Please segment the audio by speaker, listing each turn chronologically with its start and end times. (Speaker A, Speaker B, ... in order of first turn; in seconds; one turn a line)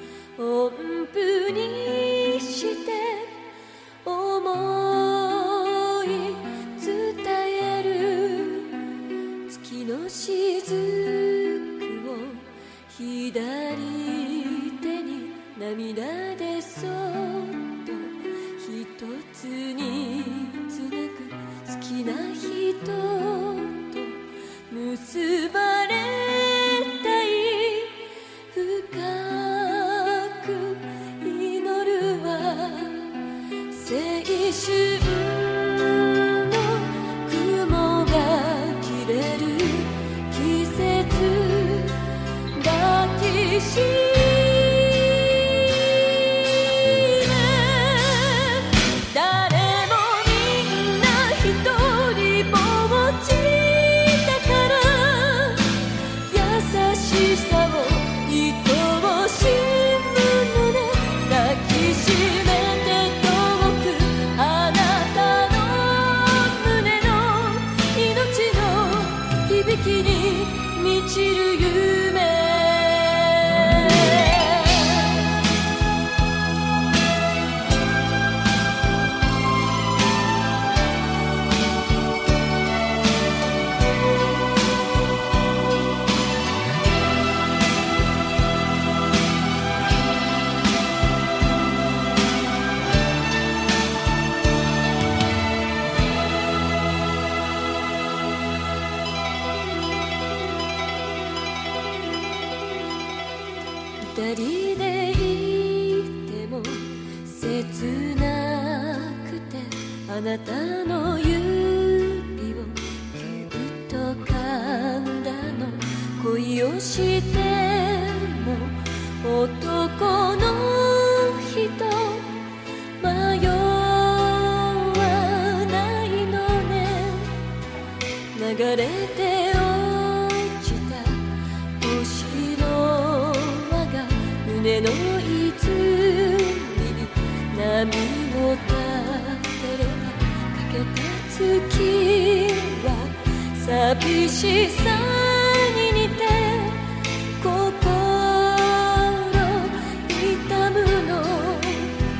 Speaker A: 0.3-3.4
Speaker A: 4.0-8.8
Speaker A: 9.5-33.2
Speaker A: 33.7-75.3
Speaker A: 104.0-122.4
Speaker A: 123.0-127.4
Speaker A: 128.3-146.9
Speaker A: 147.4-152.0